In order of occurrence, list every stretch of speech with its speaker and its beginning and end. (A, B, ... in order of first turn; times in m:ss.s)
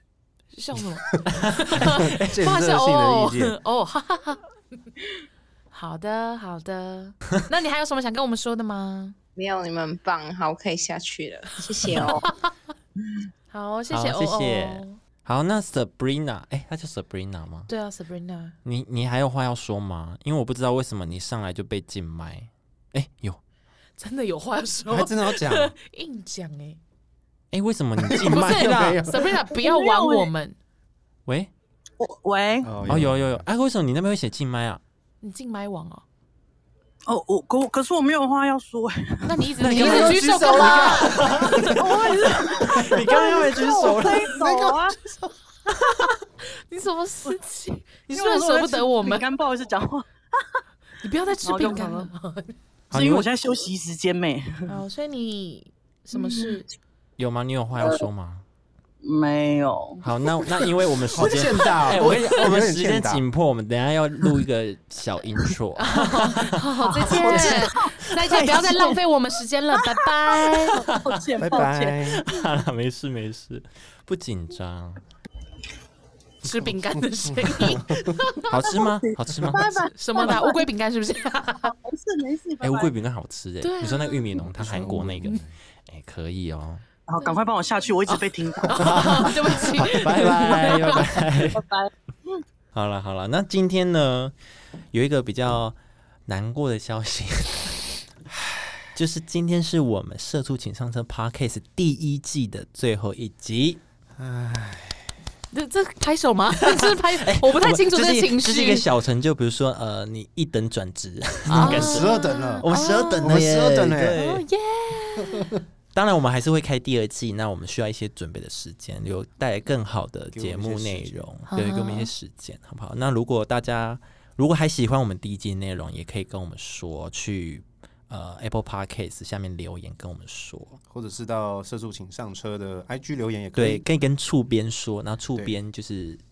0:00.5-0:04.4 A
0:01.3-0:02.4 B
0:01.8-0:03.6 C
0:05.7-0:09.2 A
0:09.4-0:12.2 D
0:13.5-0:15.0 A
0:13.9-0:17.7 B
0:17.7-0:18.6 A
0:18.6-0:23.4 B
0:24.0-0:26.8 A
0:24.9-0:25.7 C
0:27.5-0:29.0 B
0:28.0-0:29.2 C
0:28.2-0:30.6 A
0:29.6-0:30.3 E
0:32.0-0:32.7 E
0:32.6-0:33.4 C
0:32.8-0:34.8 B
0:35.2-0:36.0 A
0:37.0-0:39.4 E
0:39.2-0:41.3 A
0:39.6-0:44.4 B
0:39.6-0:42.0 C
0:41.7-0:45.0 E
0:44.6-0:49.2 A
0:48.1-0:50.4 E
0:51.0-0:52.6 A
0:51.4-0:52.1 E
0:52.9-0:53.3 B
0:52.9-0:54.8 E
0:54.7-0:56.6 A
0:56.1-0:56.6 E
0:57.2-0:58.4 B
0:59.0-1:00.0 E
1:00.0-1:07.7 B
1:01.1-1:03.2 C
1:05.8-1:10.8 A
1:07.0-1:09.0 E
1:10.4-1:12.2 E
1:10.8-1:11.2 B
1:11.4-1:12.2 C
1:12.1-1:15.0 B
1:16.4-1:18.5 A
1:16.5-1:18.1 C
1:18.5-1:19.8 B
1:18.7-1:20.6 E
1:19.9-1:21.7 A
1:21.6-1:22.9 E
1:22.6-1:26.8 B
1:23.6-1:24.4 A
1:24.5-1:25.5 C
1:27.1-1:29.3 E
1:28.7-1:31.1 A
1:28.8-1:31.6 B
1:31.5-1:32.4 E
1:32.7-1:34.3 B
1:34.9-1:37.8 B
1:38.9-1:43.8 B
1:44.2-1:45.1 C
1:45.5-1:48.8 A
1:46.6-1:52.1 B
1:51.5-1:54.2 C
1:51.5-1:53.4 A
1:52.6-1:54.4 B
1:54.1-1:55.5 A
1:55.9-2:10.8 B
2:00.3-2:01.3 C
2:01.5-2:02.1 A
2:10.9-2:13.8 C
2:13.5-2:16.2 B